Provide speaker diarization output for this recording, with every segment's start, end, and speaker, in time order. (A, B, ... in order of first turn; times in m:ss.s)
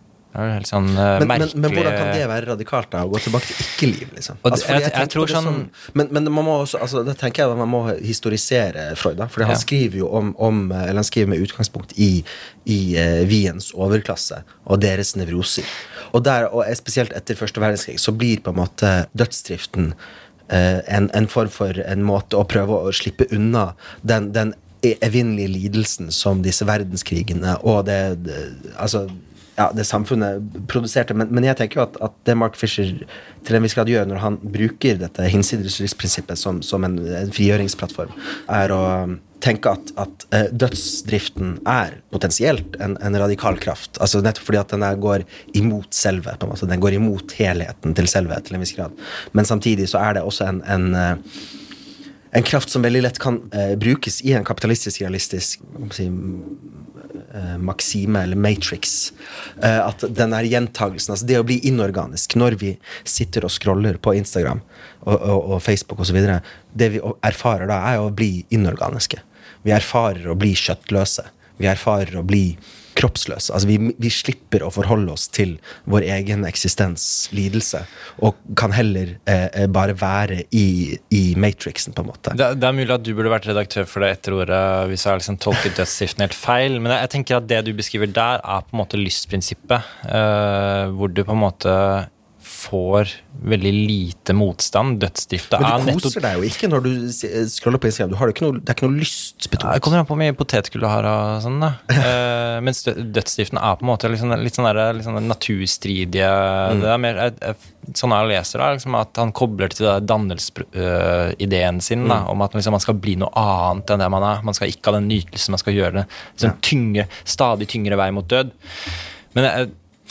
0:00.3-0:02.2 A
0:01.2-0:20.0 B
0:04.4-0:05.7 A
0:20.5-0:51.2 B
0:52.3-1:22.4 B
1:22.3-1:36.2 A
1:35.5-1:39.9 B
1:39.6-1:58.5 A
1:59.3-1:59.7 A